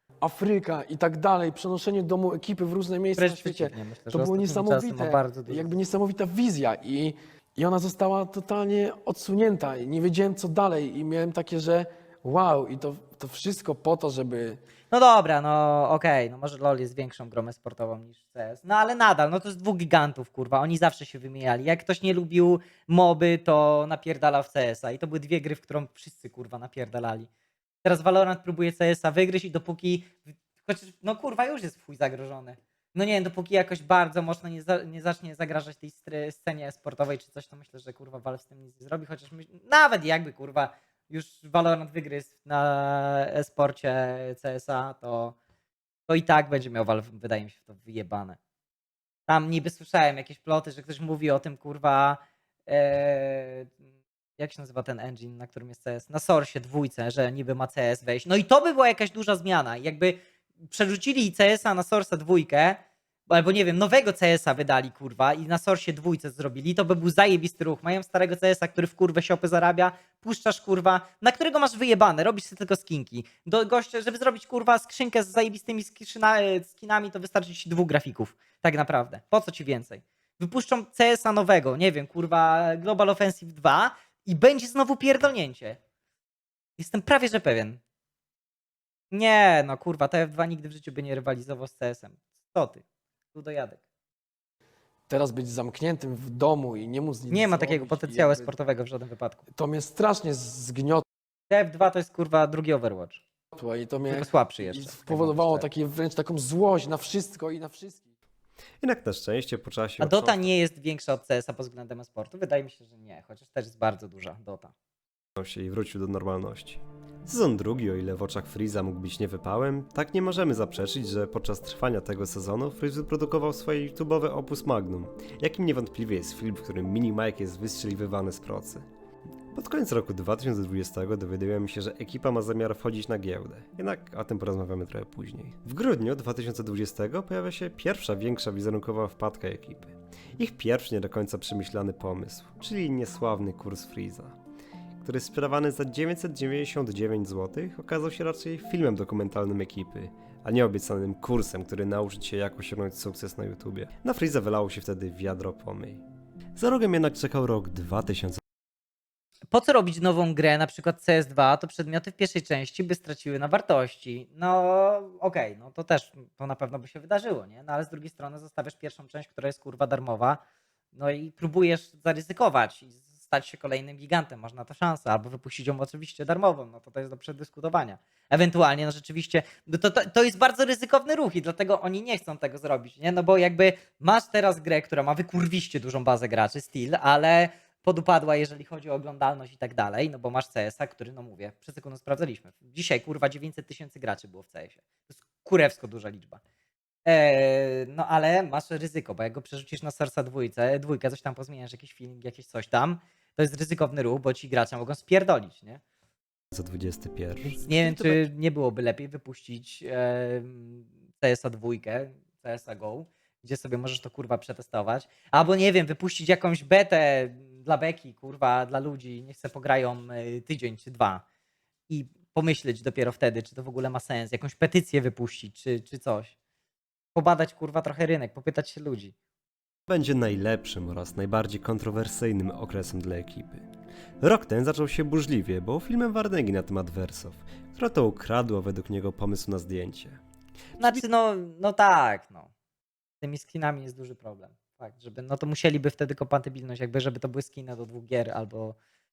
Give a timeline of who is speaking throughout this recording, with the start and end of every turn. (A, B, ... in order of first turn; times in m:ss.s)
0:00.2-0:14.6 A
0:03.2-0:05.7 B
0:14.9-0:27.3 B
0:27.8-0:45.4 B
0:46.1-0:48.4 B
0:49.3-0:53.7 B
0:54.4-1:25.8 B
1:26.8-1:27.8 B
1:29.1-1:32.8 B
1:33.3-1:33.8 B
1:35.1-1:38.5 A
1:37.3-1:39.4 B
1:39.6-1:41.0 A
1:41.5-1:43.2 B
1:43.5-1:48.1 A
1:44.1-1:45.7 B
1:48.8-1:50.5 C
1:50.0-1:54.7 B
1:55.4-2:08.9 C
2:09.5-2:24.4 C
2:25.0-2:36.0 C
2:36.6-2:38.4 C
2:39.5-2:50.4 B
2:51.0-3:16.4 B
3:17.1-3:25.8 B
3:26.5-3:28.3 C
3:27.6-3:41.2 B
3:41.9-3:46.4 B
3:47.2-3:49.1 B
3:49.9-3:53.7 C
3:54.2-4:00.2 C
4:00.8-4:02.5 B
4:03.2-4:08.8 B